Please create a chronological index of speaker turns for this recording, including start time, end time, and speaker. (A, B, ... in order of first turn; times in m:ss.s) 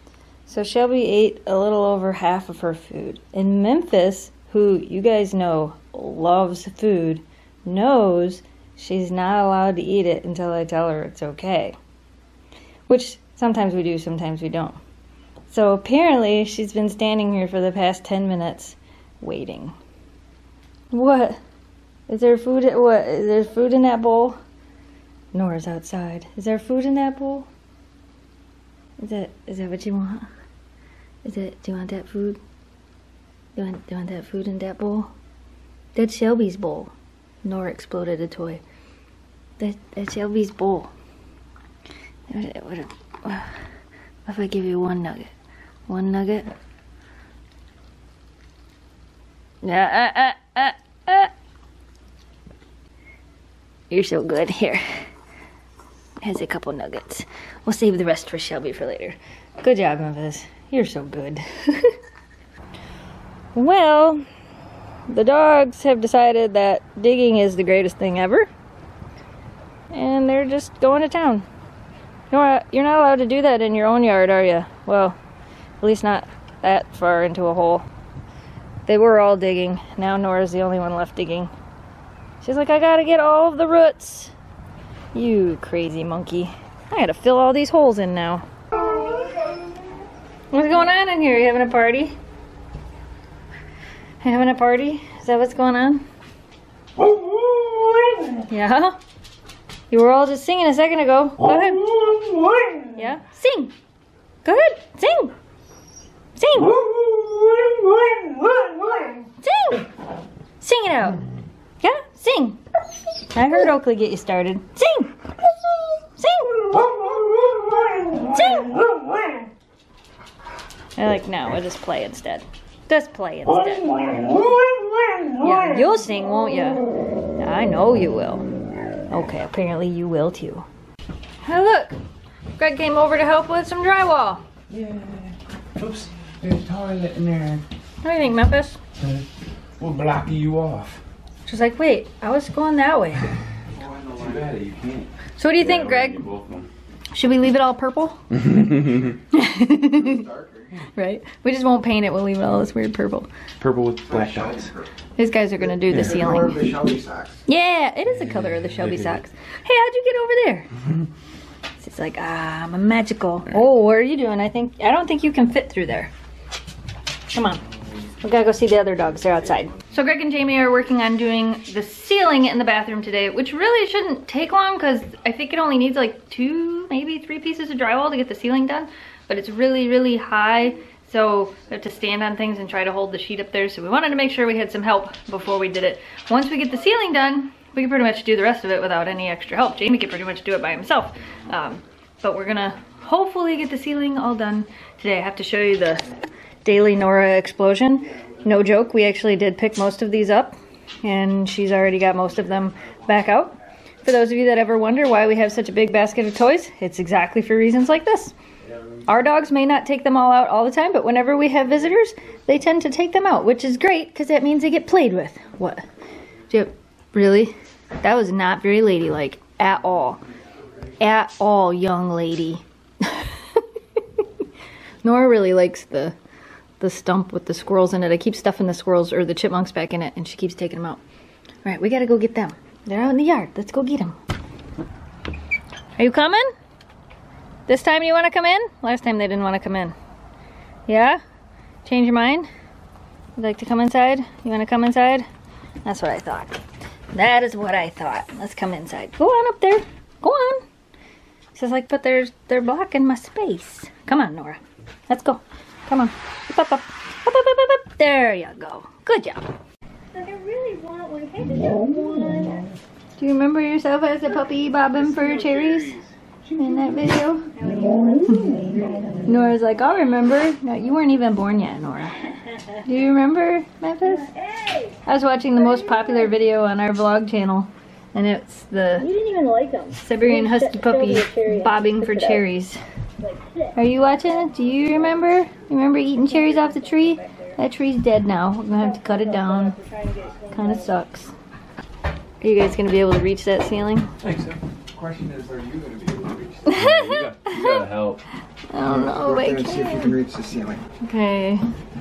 0:00.4-0:11.8 A
0:12.9-0:14.8 A
0:15.5-0:19.8 A
0:20.9-0:21.4 A
0:22.1-0:24.4 A
0:25.3-0:27.5 A
0:29.0-0:30.2 A
0:31.2-0:32.4 A
0:33.6-0:35.1 A
0:35.9-0:38.6 A
0:39.6-0:40.9 A
0:42.3-0:43.6 A
0:44.2-0:45.3 A
0:45.9-0:46.5 A
0:49.6-0:51.3 A
0:53.9-0:55.1 A
0:56.2-1:01.9 A
1:03.5-1:04.2 A
1:05.1-1:08.5 A
1:09.9-1:11.4 A
1:12.3-1:15.2 A
1:15.8-1:17.8 A
1:18.8-1:21.5 A
1:22.4-1:24.3 A
1:25.1-1:28.4 A
1:30.5-1:32.1 A
1:34.2-1:36.0 A
1:38.4-1:39.0 A
1:39.9-1:42.1 A
1:42.9-1:43.7 A
1:44.4-1:45.3 A
1:46.4-1:46.9 A
1:49.4-1:49.9 A
1:50.6-1:51.2 A
1:51.8-1:52.6 A
1:53.3-1:55.1 A
1:56.2-1:57.1 A
1:58.1-1:58.9 A
2:01.0-2:04.5 A
2:05.3-2:06.8 A
2:07.4-2:08.4 A
2:09.1-2:10.6 A
2:11.4-2:12.0 A
2:12.6-2:14.4 A
2:14.7-2:17.6 B
2:18.0-2:18.8 A
2:19.8-2:21.0 B
2:21.4-2:23.3 A
2:23.7-2:24.5 C
2:23.8-2:26.7 B
2:25.4-2:26.2 A
2:27.1-2:28.2 A
2:29.3-2:30.2 A
2:29.8-2:30.7 C
2:30.9-2:33.3 A
2:33.6-2:34.7 B
2:34.1-2:34.9 C
2:35.2-2:36.7 A
2:35.8-2:37.4 C
2:37.5-2:40.7 A
2:41.8-2:46.1 A
2:47.3-2:47.6 A
2:48.2-3:16.0 A
3:16.6-3:28.3 A
3:29.0-3:35.8 A
3:36.5-3:40.2 A
3:41.0-3:44.2 A
3:45.0-3:46.1 A
3:46.8-3:51.0 A
3:51.6-3:54.2 A
3:56.0-3:56.4 A
3:57.7-3:59.9 A
4:00.9-4:01.2 A
4:01.8-4:02.5 A
4:03.4-4:05.2 A
4:05.8-4:06.6 A
4:07.1-4:10.6 A
4:11.5-4:19.5 A
4:20.1-4:22.7 D
4:23.2-4:27.5 A
4:25.1-4:26.1 B
4:27.5-4:29.2 D
4:29.2-4:34.3 A
4:34.3-4:35.0 D
4:35.0-4:39.1 A
4:35.6-4:36.3 D
4:39.0-4:42.4 D
4:39.9-4:42.8 A
4:43.2-4:45.0 D
4:43.7-4:49.8 A
4:46.2-4:47.5 D
4:48.8-4:50.9 D
4:50.5-4:51.3 A
4:52.4-4:54.1 A
4:54.2-4:58.2 B
4:56.6-4:57.8 A
4:58.7-5:00.2 A
4:58.8-5:00.8 C
5:01.0-5:01.6 A